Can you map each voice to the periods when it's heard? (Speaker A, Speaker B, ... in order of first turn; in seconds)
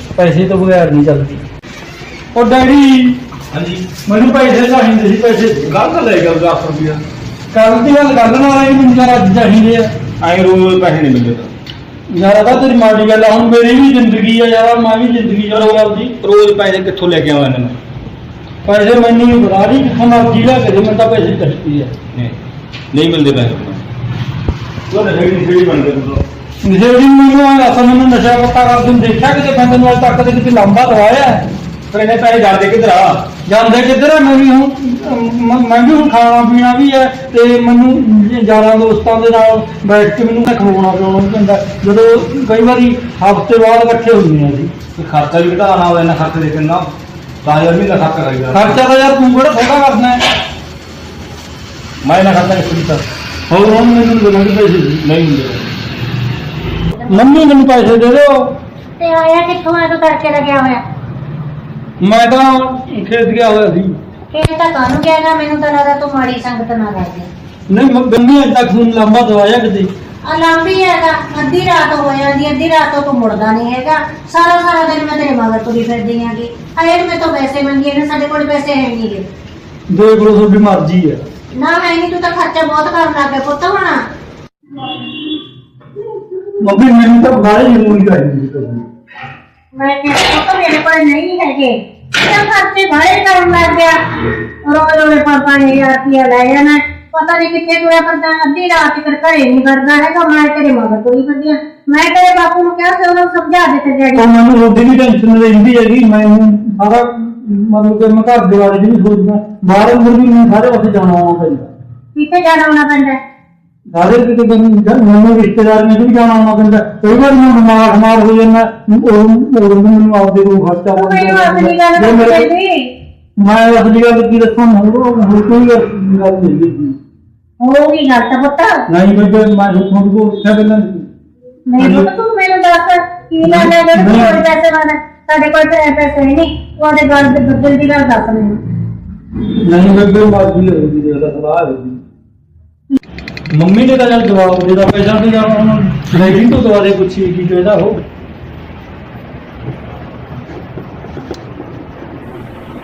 Speaker A: 0.1-1.4, 2.3-3.2, 4.0-5.7, 7.5-9.9, 12.1-16.1, 18.6-21.9, 26.6-31.4, 33.5-44.7, 48.5-50.2, 53.5-55.0, 57.1-58.5, 62.0-64.0, 67.7-69.9, 79.9-81.2, 86.6-88.8, 104.1-111.7, 113.9-122.5, 123.4-126.9, 128.9-131.1, 131.8-132.1, 133.4-134.4, 139.6-141.9, 143.5-148.0
Speaker B: 3.5-3.9, 5.7-7.0, 10.2-11.5, 16.2-17.8, 22.9-23.8, 24.9-26.2, 31.9-33.3, 45.0-46.9, 47.4-48.8, 52.0-53.0, 55.0-55.7
Speaker C: 57.0-57.4, 59.0-60.8, 64.3-67.3, 70.2-79.2, 81.5-84.0, 89.7-94.0, 94.6-104.3, 112.1-113.2, 121.0-122.9, 127.6-128.8, 131.7-138.6